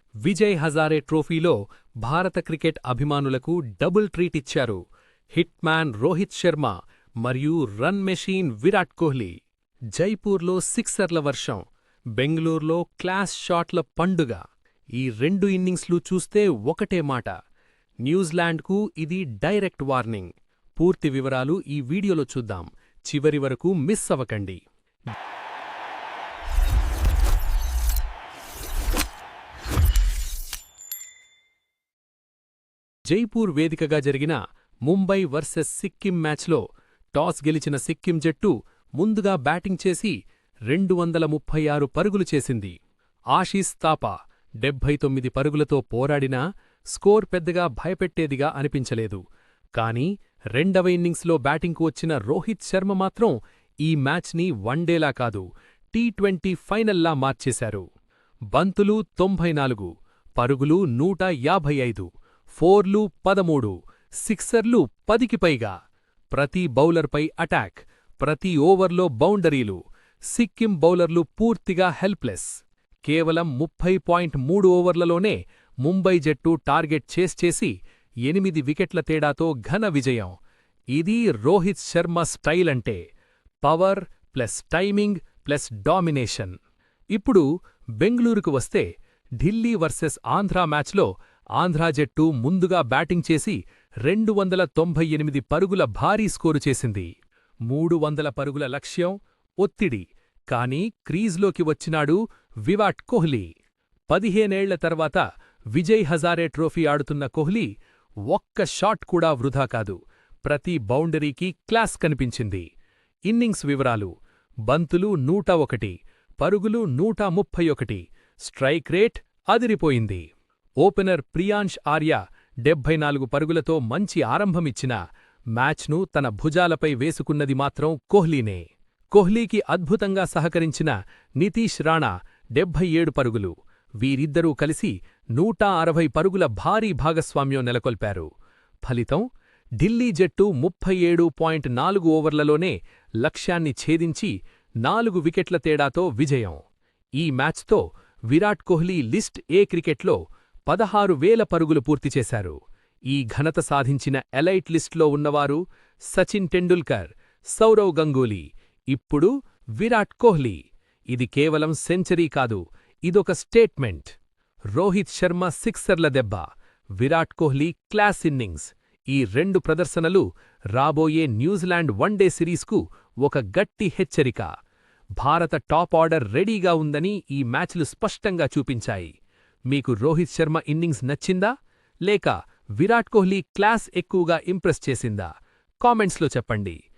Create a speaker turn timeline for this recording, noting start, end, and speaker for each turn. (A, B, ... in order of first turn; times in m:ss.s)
0:00.2-0:04.8 A
0:05.3-0:09.4 A
0:09.9-0:11.6 A
0:12.2-0:14.4 A
0:15.0-0:17.4 A
0:18.0-0:24.6 A
0:33.1-0:40.2 A
0:40.7-0:42.8 A
0:43.3-0:46.4 A
0:46.9-0:49.2 A
0:49.8-0:57.9 A
0:58.5-1:05.8 A
1:06.3-1:20.4 A
1:20.9-1:23.0 A
1:23.6-1:26.6 A
1:27.1-1:27.4 A
1:28.0-1:28.9 A
1:29.4-1:37.1 A
1:37.7-1:43.5 A
1:44.1-1:47.7 A
1:48.3-1:52.7 A
1:53.3-1:54.1 A
1:54.7-2:00.2 A
2:00.8-2:05.0 A
2:05.6-2:18.3 A
2:18.8-2:19.2 A
2:19.8-2:26.6 A
2:27.2-2:32.6 A
2:33.1-2:35.6 A
2:36.1-2:40.6 A
2:41.1-2:44.2 A
2:44.7-2:46.5 A
2:47.0-2:54.5 A
2:55.2-2:59.1 A
2:59.7-3:01.5 A
3:02.1-3:05.3 A
3:05.8-3:06.8 A